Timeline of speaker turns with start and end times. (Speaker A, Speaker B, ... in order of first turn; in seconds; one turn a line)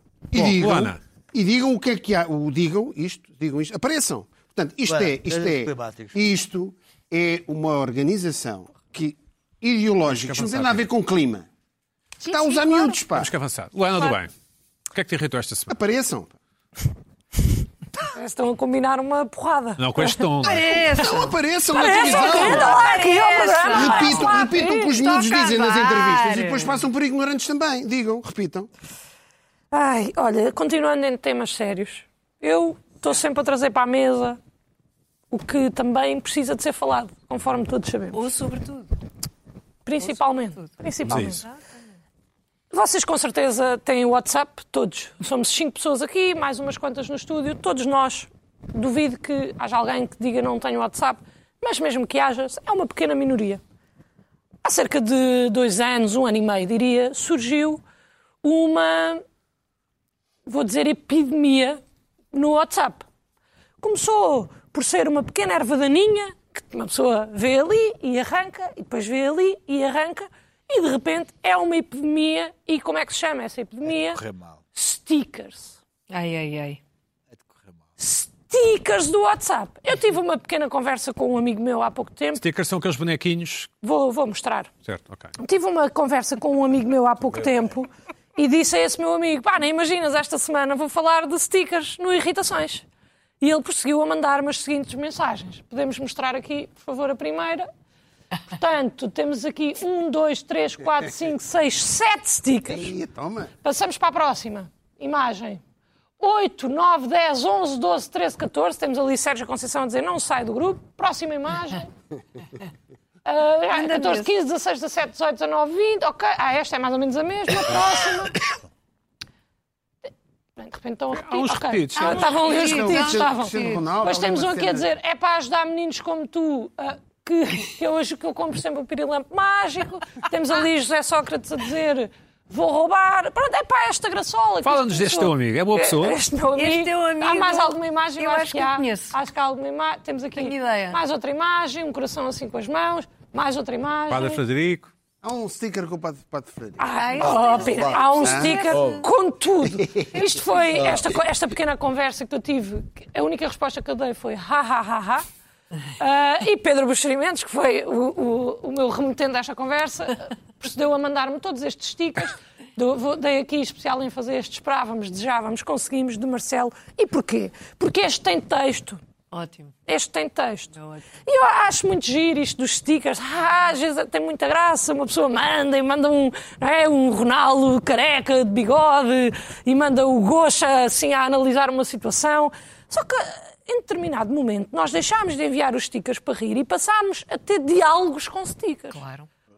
Speaker A: 0.3-11.5
Speaker B: 0.3-1.0
Speaker C: 4.9-6.2
Speaker B: 10.1-10.9
Speaker D: 12.2-13.0
Speaker A: 12.2-13.3
Speaker B: 13.1-14.3
Speaker B: 14.9-15.8
Speaker A: 15.7-16.3
Speaker E: 18.0-20.2
Speaker B: 19.8-20.7
Speaker D: 20.4-26.8
Speaker A: 20.9-22.9
Speaker E: 21.7-25.0
Speaker A: 23.7-28.7
Speaker E: 29.7-34.4
Speaker E: 35.3-38.2
Speaker D: 38.1-38.9
Speaker E: 39.8-41.4
Speaker D: 40.0-41.7
Speaker B: 41.0-41.4
Speaker E: 42.7-53.6
Speaker E: 54.6-57.8
Speaker E: 58.4-59.2
Speaker E: 60.5-61.8
Speaker E: 62.3-63.0
Speaker E: 63.8-74.2
Speaker C: 73.9-74.6
Speaker E: 74.7-75.8
Speaker D: 76.1-76.8
Speaker C: 77.3-77.8
Speaker E: 78.0-82.4
Speaker B: 82.4-83.7
Speaker E: 83.8-84.7
Speaker B: 84.8-85.3
Speaker E: 85.4-92.8
Speaker E: 93.4-97.7
Speaker E: 98.5-102.9
Speaker A: 102.7-103.5
Speaker E: 103.6-105.6
Speaker E: 106.2-111.9
Speaker E: 113.2-118.4
Speaker D: 113.7-114.3
Speaker E: 120.6-144.4
Speaker B: 121.1-122.3
Speaker D: 122.0-123.3
Speaker A: 122.1-124.9
Speaker B: 134.6-136.2
Speaker D: 136.6-139.1
Speaker D: 140.4-141.0
Speaker B: 144.1-144.9
Speaker A: 145.2-148.6
Speaker E: 146.8-155.2
Speaker D: 147.0-149.1
Speaker C: 148.7-149.0
Speaker A: 149.8-150.3
Speaker E: 156.0-169.0
Speaker D: 169.3-169.7
Speaker E: 169.9-170.7
Speaker D: 170.7-171.1
Speaker E: 171.3-189.0
Speaker D: 188.9-189.3